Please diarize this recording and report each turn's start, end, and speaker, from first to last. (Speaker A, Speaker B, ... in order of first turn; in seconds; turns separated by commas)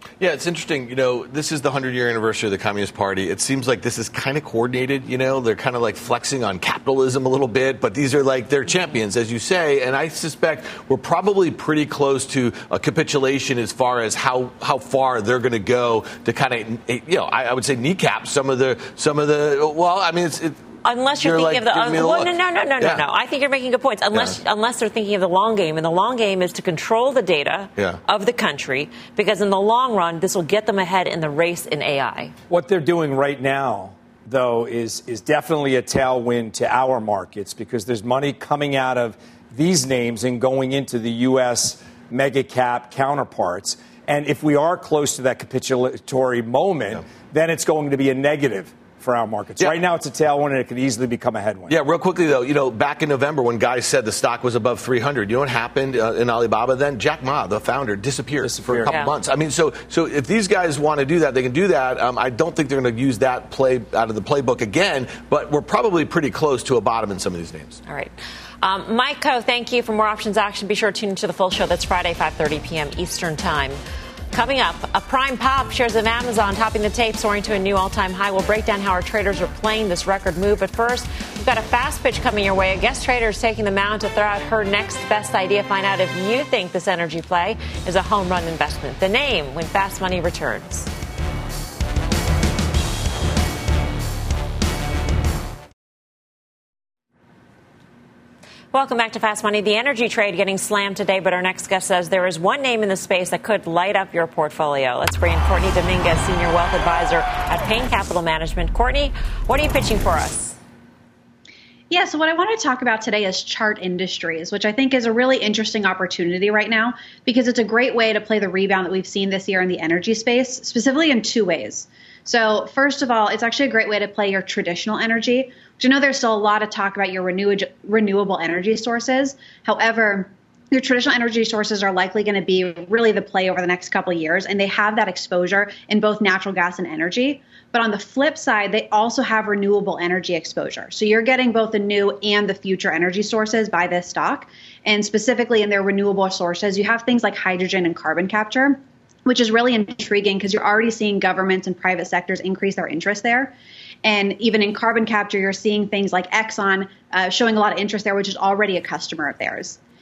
Speaker A: 0.2-20.6, Speaker B: 20.8-32.3, Speaker A: 21.2-23.0, Speaker A: 24.1-24.4, Speaker C: 32.5-51.7, Speaker A: 51.7-67.8, Speaker C: 58.4-59.0, Speaker B: 58.8-59.1, Speaker B: 67.9-73.8, Speaker B: 74.3-90.9, Speaker B: 98.7-110.6, Speaker D: 111.9-159.8